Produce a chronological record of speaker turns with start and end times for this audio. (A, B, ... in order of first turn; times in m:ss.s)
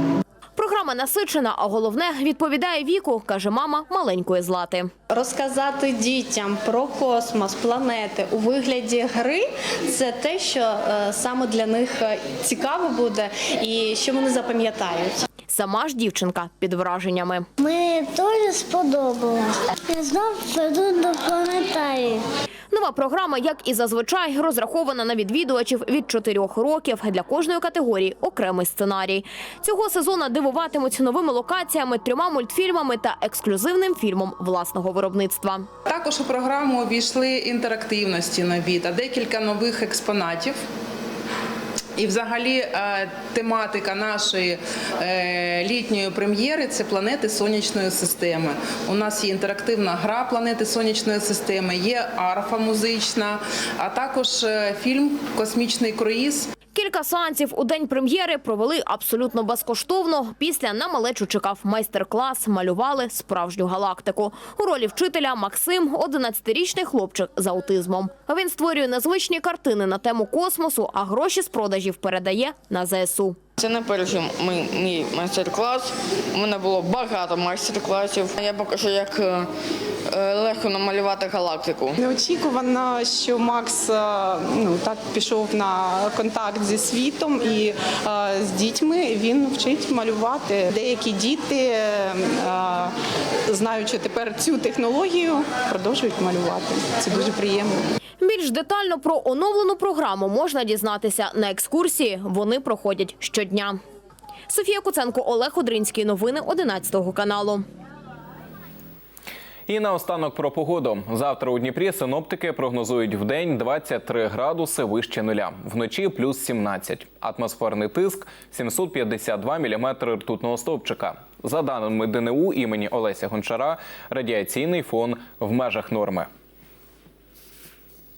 0:00.6-0:04.9 A
0:05.1-0:15.1 B
0:15.5-0:17.5 A
0:17.6-0:22.2 C
0:22.7-0:35.7 A
0:35.9-0:40.6 D
0:42.0-0:56.5 D
0:56.8-1:13.4 A
1:13.6-1:19.5 E
1:20.1-1:21.9 E
1:22.1-1:31.8 F
1:32.4-1:32.9 F
1:33.5-1:37.7 F
1:38.2-1:43.8 A
1:44.5-1:47.6 A
1:49.7-2:06.3 G